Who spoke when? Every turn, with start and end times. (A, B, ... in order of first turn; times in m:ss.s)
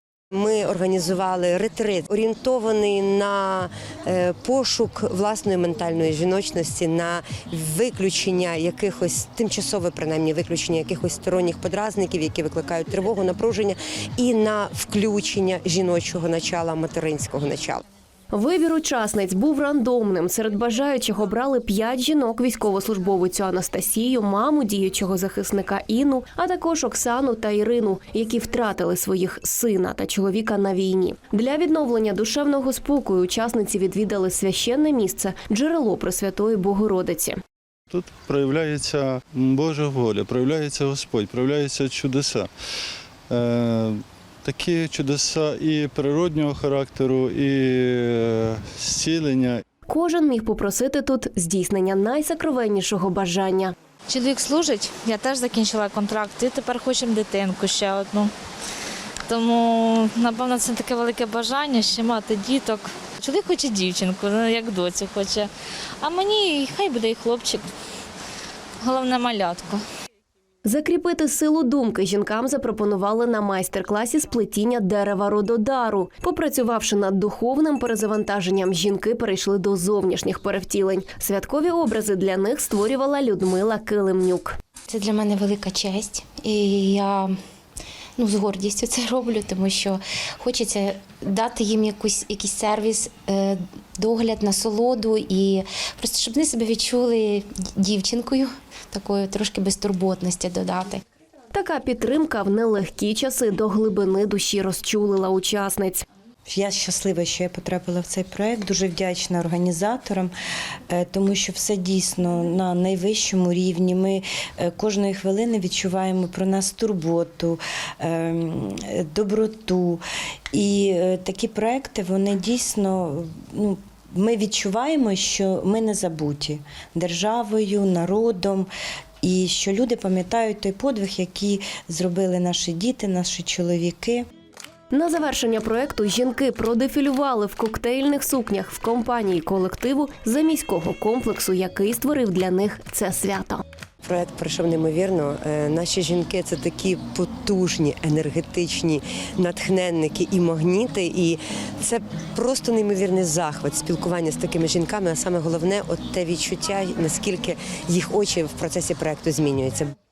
0:00.3-0:17.8 A
0:18.3-0:37.4 B
0:37.9-0:42.5 C
0:43.3-0:49.6 C
0:49.9-0:53.7 B
0:54.1-0:58.3 D
0:59.3-1:05.5 D
1:06.0-1:07.6 D
1:08.8-1:09.8 D
1:10.6-1:24.5 B
1:24.9-1:27.3 E
1:28.2-1:41.0 E
1:41.5-1:46.0 B
1:46.5-1:50.3 F
1:50.9-2:00.0 F
2:00.5-2:08.7 F
2:09.2-2:14.2 F
2:14.9-2:23.6 B
2:24.0-2:39.9 A